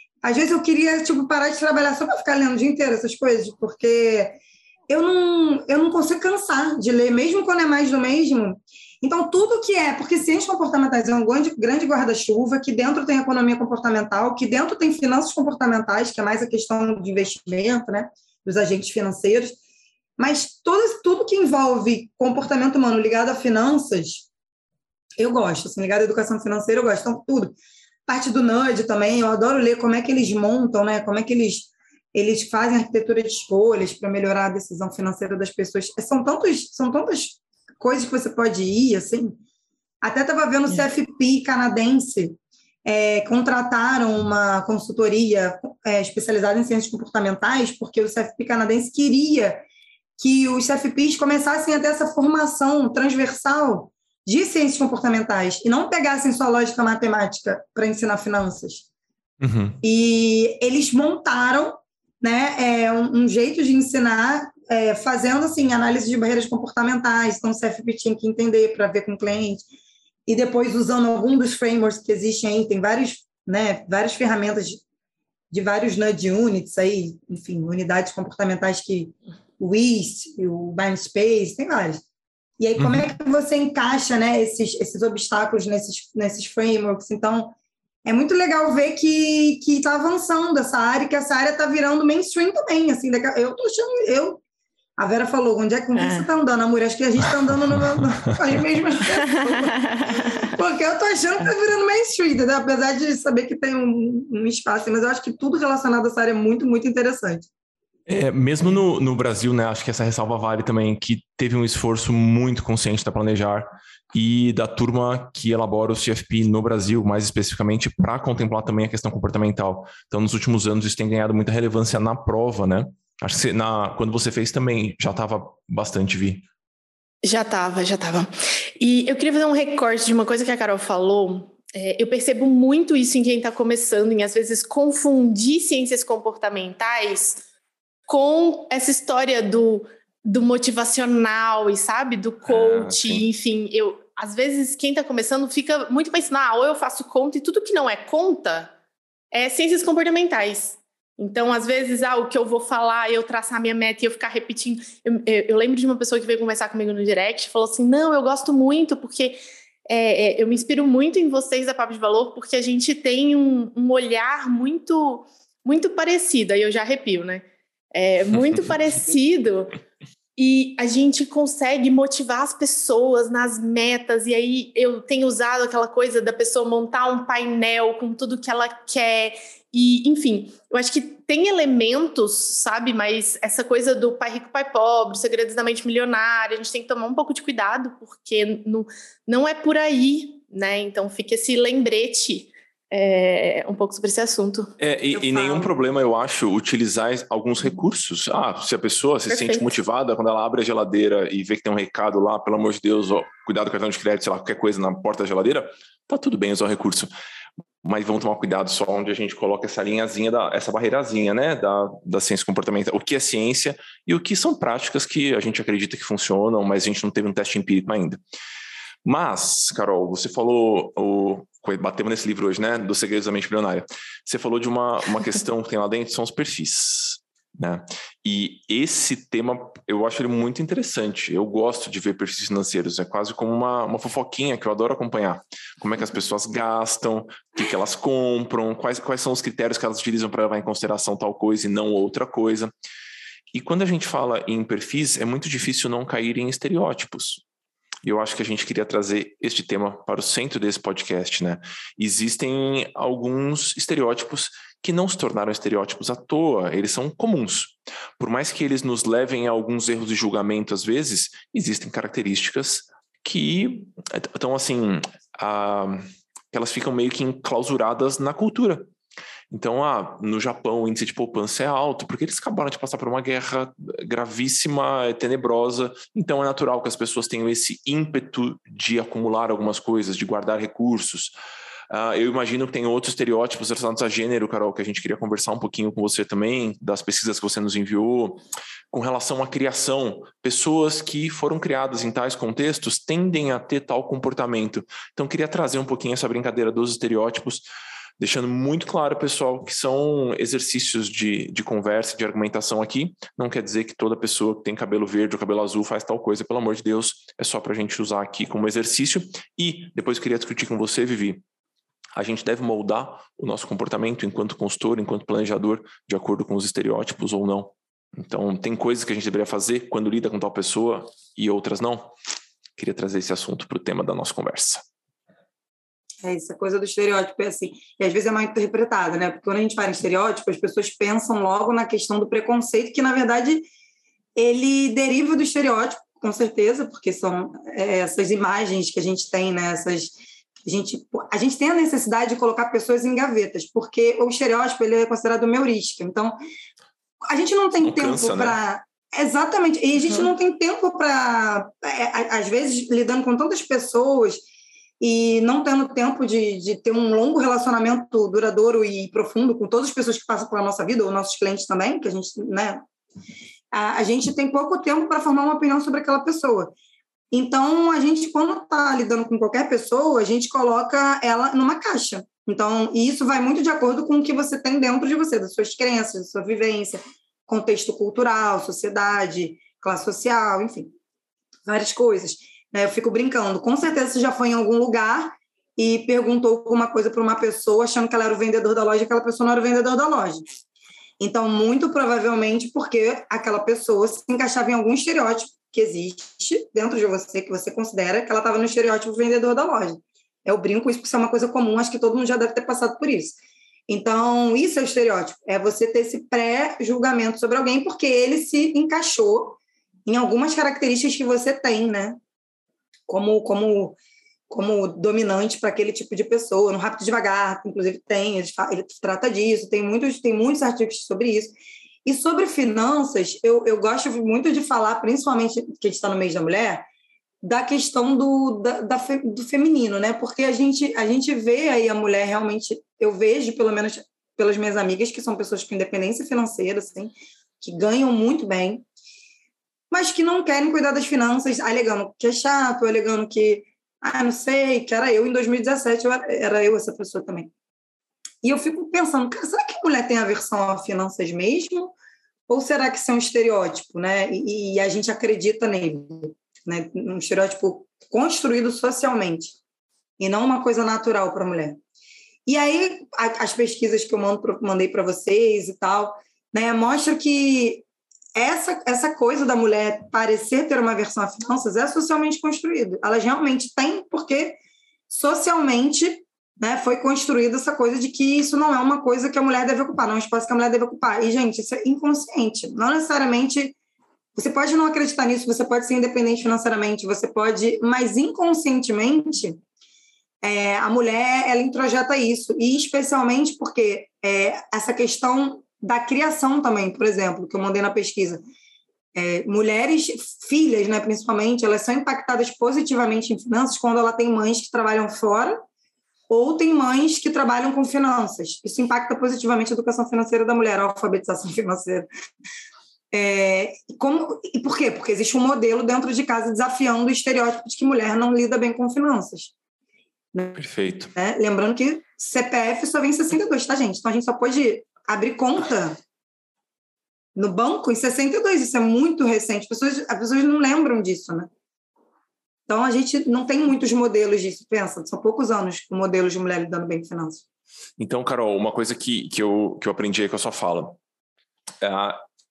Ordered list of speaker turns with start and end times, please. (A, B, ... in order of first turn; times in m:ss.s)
0:00.2-0:19.6 A
0:20.2-0:24.3 A
0:25.2-0:27.6 A
0:28.1-0:39.4 A
0:40.0-0:49.6 A
0:50.2-0:58.8 A
0:59.4-0:59.8 B
0:59.8-1:09.6 A
1:10.3-1:14.8 A
1:15.5-1:22.0 A
1:22.6-1:34.4 A
1:22.8-1:23.1 B
1:35.0-1:47.5 A
1:36.0-1:36.2 C
1:40.0-1:40.2 C
1:48.1-2:06.4 B
2:07.2-2:17.4 C
2:18.1-2:28.7 C
2:22.5-2:23.2 B
2:29.3-2:49.7 C
2:50.4-3:14.7 C
3:14.8-3:27.1 B
3:15.1-3:15.7 A
3:19.3-3:19.7 C
3:27.8-3:38.2 B
3:39.0-4:02.7 B
4:03.5-4:07.4 B
4:08.0-4:28.9 B
4:29.5-4:41.3 B
4:41.9-4:57.6 B
4:58.2-5:11.4 B
5:12.2-5:22.1 B
5:22.8-5:24.8 B
5:26.2-5:33.7 A
5:34.4-5:46.4 A
5:47.2-5:54.4 A
5:47.8-5:48.6 B
5:55.0-6:02.8 A
6:03.7-6:06.7 A
6:07.3-6:20.9 A
6:21.6-6:30.4 A
6:31.2-6:43.4 A
6:43.9-6:52.2 A
6:53.1-6:54.0 A
6:54.5-7:06.8 A
7:07.4-7:18.8 A
7:19.9-7:27.5 A
7:28.4-7:31.9 A
7:32.5-7:39.5 A
7:40.2-7:41.8 A
7:42.4-7:54.6 A
7:55.1-8:03.7 A
8:04.4-8:09.6 A
8:10.4-8:18.4 A
8:19.1-8:25.6 A
8:26.3-8:32.1 A
8:33.1-8:39.5 A
8:40.3-8:40.6 A
8:40.6-8:41.1 B
8:41.1-8:46.0 A
8:47.4-8:51.5 A
8:52.7-8:57.4 A
8:58.0-9:01.0 B
9:01.8-9:02.2 B